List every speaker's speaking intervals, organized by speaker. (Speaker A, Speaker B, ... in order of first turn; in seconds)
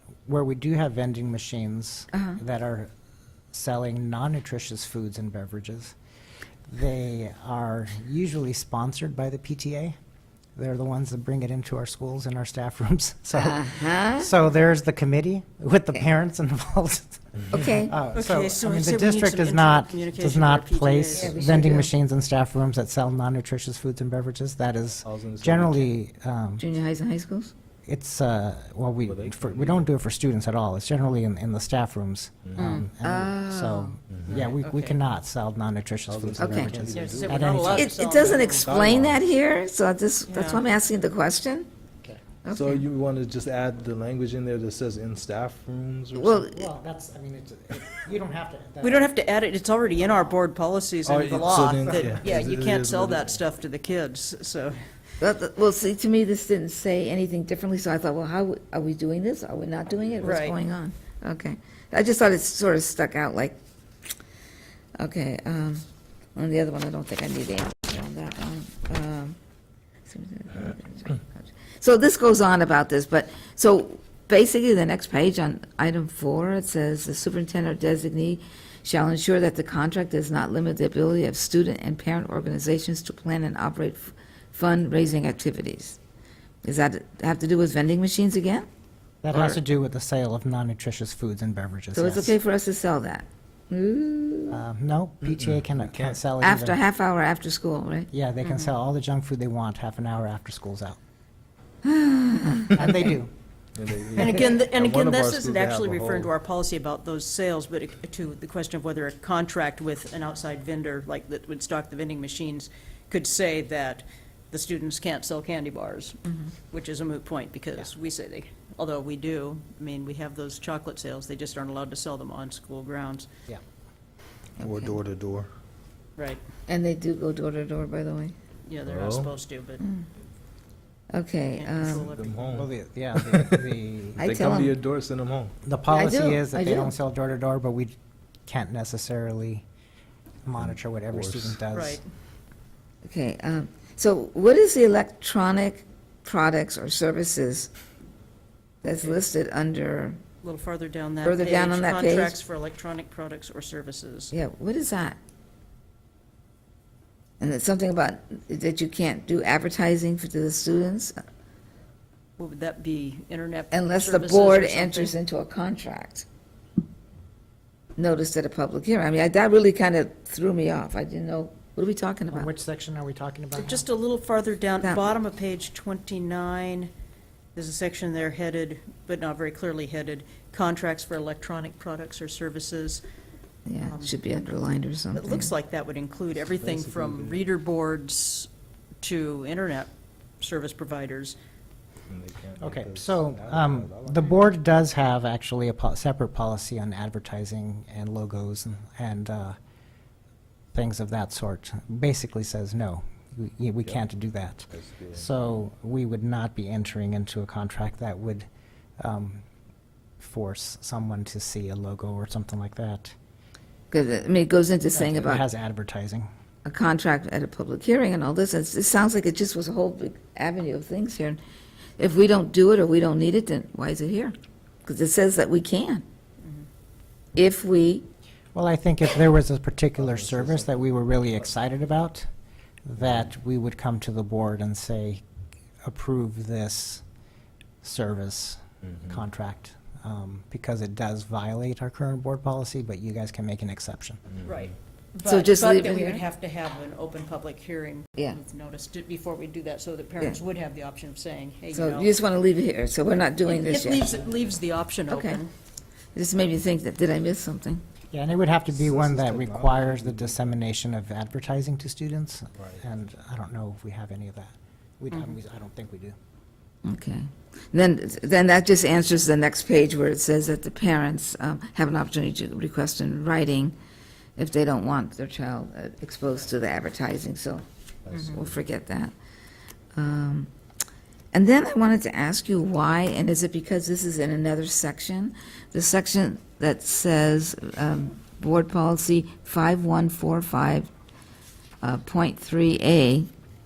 Speaker A: 0.3-2.9, 3.5-5.9, 6.7-9.9, 10.6-26.6, 27.9-37.9, 46.5-49.1, 89.2-92.3, 94.5-96.8, 98.1-101.0, 102.7-103.3, 132.5-134.2, 135.6-137.9, 138.4-139.6, 140.4-142.0, 172.3-173.8, 192.6-199.6, 200.7-208.5, 209.0-209.4, 210.2-213.1, 214.9-216.3, 228.5-232.3, 232.8-235.2, 235.8-237.0, 237.8-244.2, 258.1-266.1
Speaker B: 2.1-2.4, 13.3-14.3, 17.5-17.9, 21.1-21.9, 26.6-27.5, 32.6-34.0, 36.4-36.9, 37.7-41.7, 42.4-42.8, 46.1-46.7, 55.2-63.6, 65.0-65.8, 66.3-69.3, 70.1-86.0, 86.6-88.7, 89.3-89.6, 91.9-94.6, 96.4-98.1, 101.8-103.2, 116.3-116.5, 124.6-125.0, 126.7-128.3, 129.8-130.1, 131.1-132.1, 134.2-134.8, 135.9-136.9, 143.0-147.7, 148.8-150.2, 151.2-152.4, 154.3-155.2, 157.4-161.2, 163.7-166.2, 168.0-172.5, 183.7-185.5, 213.9-215.4, 216.6-221.4, 222.0-226.0, 227.3-228.1, 245.2-246.2, 251.7-254.1, 255.1-255.4, 256.1-257.8, 266.8-273.7, 274.4-279.1, 279.9-280.5, 281.3-290.9, 291.8-293.3
Speaker C: 18.1-21.4, 34.4-35.0, 36.9-38.8, 40.3-40.6, 48.8-54.8, 60.2-60.6, 98.4-98.7, 104.1-116.2, 116.7-123.3, 126.2-126.4, 128.7-129.8, 131.6-132.4, 141.7-142.0, 150.4-154.3, 162.4-165.1, 173.6-176.9, 177.5-183.0, 183.8-184.2, 185.1-188.5, 189.0-189.9, 190.4-191.4, 244.4-252.1, 253.4-255.5
Speaker D: 25.0-25.9, 29.1-29.9, 32.5-32.8, 34.1-34.5, 36.1-37.6, 38.3-39.2, 42.5-46.5, 51.0-53.4, 95.2-96.2, 103.7-106.3, 124.6-125.5, 128.8-129.3, 132.1-135.5, 140.6-141.6, 186.5-187.4, 192.1-194.4, 204.7-205.3, 230.0-230.8, 258.7-260.5, 278.1-278.4